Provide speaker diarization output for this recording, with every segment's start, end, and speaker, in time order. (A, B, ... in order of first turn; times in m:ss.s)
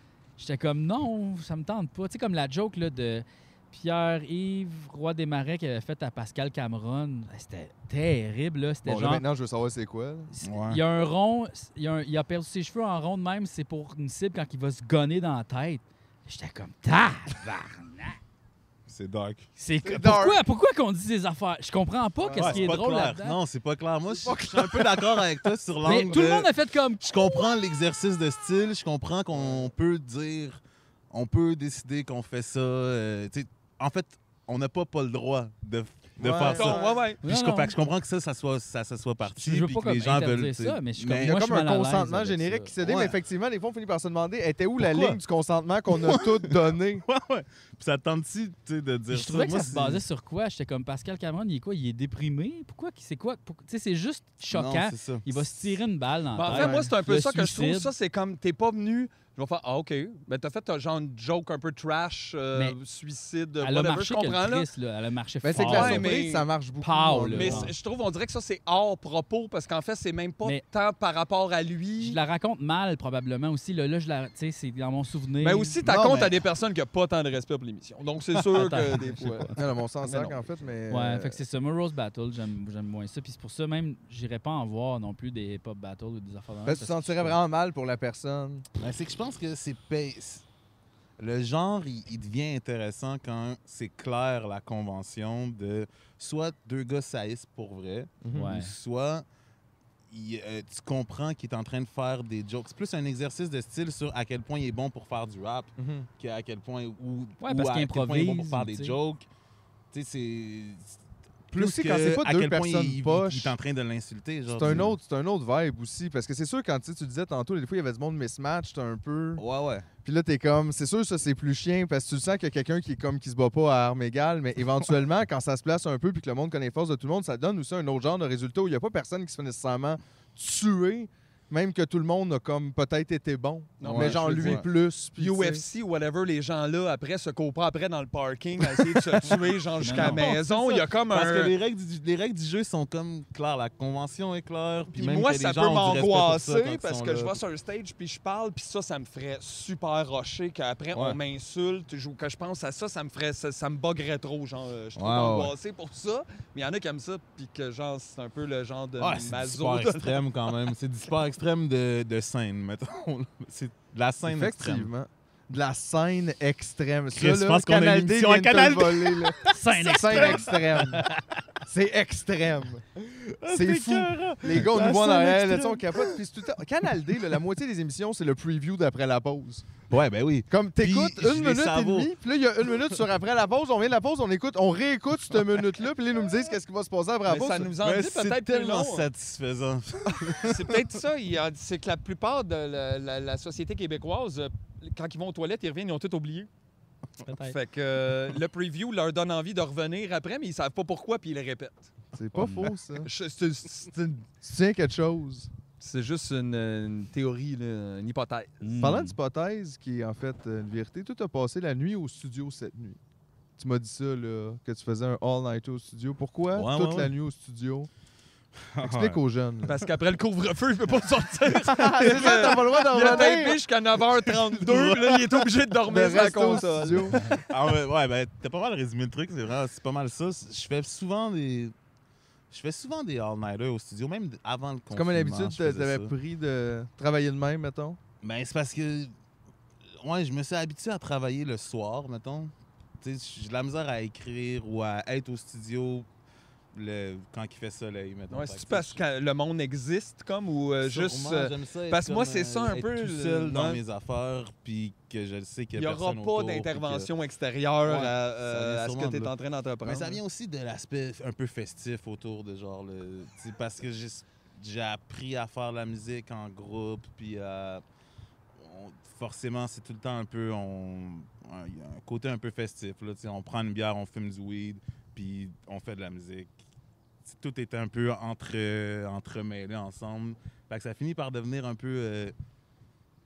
0:00.4-0:09.2 A
0:08.8-0:10.3 B
0:10.3-0:18.2 A
0:10.4-0:10.8 C
0:18.9-0:19.4 C
0:19.6-0:23.4 A
0:19.8-0:20.4 B
0:22.2-0:22.7 B
0:22.4-0:26.5 C
0:24.1-0:25.5 B
0:25.8-0:27.1 A
0:27.0-0:30.6 C
0:29.3-0:29.7 B
0:31.1-0:41.4 C
0:36.2-0:37.0 B
0:36.5-0:37.2 D
0:37.2-0:37.7 A
0:39.2-0:42.7 A
0:41.2-0:47.0 B
0:42.8-0:43.2 C
0:44.8-0:45.2 C
0:45.9-0:46.3 C
0:47.0-0:50.0 C
0:49.1-0:57.9 A
0:54.5-0:55.8 C
0:56.4-1:04.7 D
0:56.5-0:56.9 B
1:03.6-1:06.2 A
1:05.4-1:07.7 B
1:05.6-1:06.5 D
1:06.8-1:07.7 A
1:07.3-1:12.2 D
1:12.0-1:15.7 A
1:15.4-1:20.4 D
1:15.8-1:16.3 C
1:18.5-1:19.5 A
1:19.5-1:21.4 B
1:20.9-1:27.4 A
1:26.6-1:28.6 B
1:28.8-1:30.4 C
1:31.2-1:39.2 C
1:38.2-1:38.6 B
1:38.3-1:38.7 A
1:40.1-1:49.2 C
1:45.8-1:46.1 B
1:47.4-1:49.0 A
1:49.9-1:51.0 C
1:51.5-1:55.0 C
1:51.5-1:53.6 B
1:54.5-1:59.4 B
1:59.4-1:59.9 C
2:00.0-2:15.6 B
2:13.8-2:14.6 D
2:13.8-2:14.6 C
2:15.2-2:21.5 D
2:19.8-2:20.4 A
2:19.9-2:27.4 C
2:24.9-2:40.5 D
2:35.0-2:35.5 C
2:39.0-2:44.9 C
2:44.2-2:51.0 B
2:47.1-2:50.6 C
2:49.5-2:51.2 A
2:51.6-2:52.8 B
2:53.0-2:56.1 C
2:53.5-2:59.7 B
2:59.9-3:02.1 C
3:00.5-3:07.7 B
3:07.3-3:09.1 D
3:07.8-3:10.7 C
3:10.4-3:16.5 D
3:17.2-3:17.6 A
3:17.4-3:21.9 D
3:22.1-3:23.1 B
3:23.0-3:24.3 D
3:24.4-3:25.5 B
3:25.8-3:28.6 D
3:28.6-3:29.2 A
3:28.8-3:33.0 B
3:33.6-3:37.9 B
3:36.5-3:37.1 C
3:38.7-3:39.2 C
3:38.8-3:39.8 B
3:39.6-3:47.1 D
3:41.7-3:43.6 B
3:42.2-3:43.5 C
3:44.5-3:45.3 C
3:45.8-3:47.2 B
3:47.1-3:47.4 A
3:47.5-3:51.7 C
3:52.5-3:56.1 C
3:54.9-3:58.0 B
3:58.2-3:59.1 C
4:00.0-4:06.1 C
4:06.7-4:09.0 C
4:08.3-4:13.8 D
4:10.8-4:17.1 C
4:15.7-4:20.2 D
4:17.8-4:19.3 C
4:19.8-4:27.8 C
4:28.6-4:36.5 C
4:37.2-4:42.3 C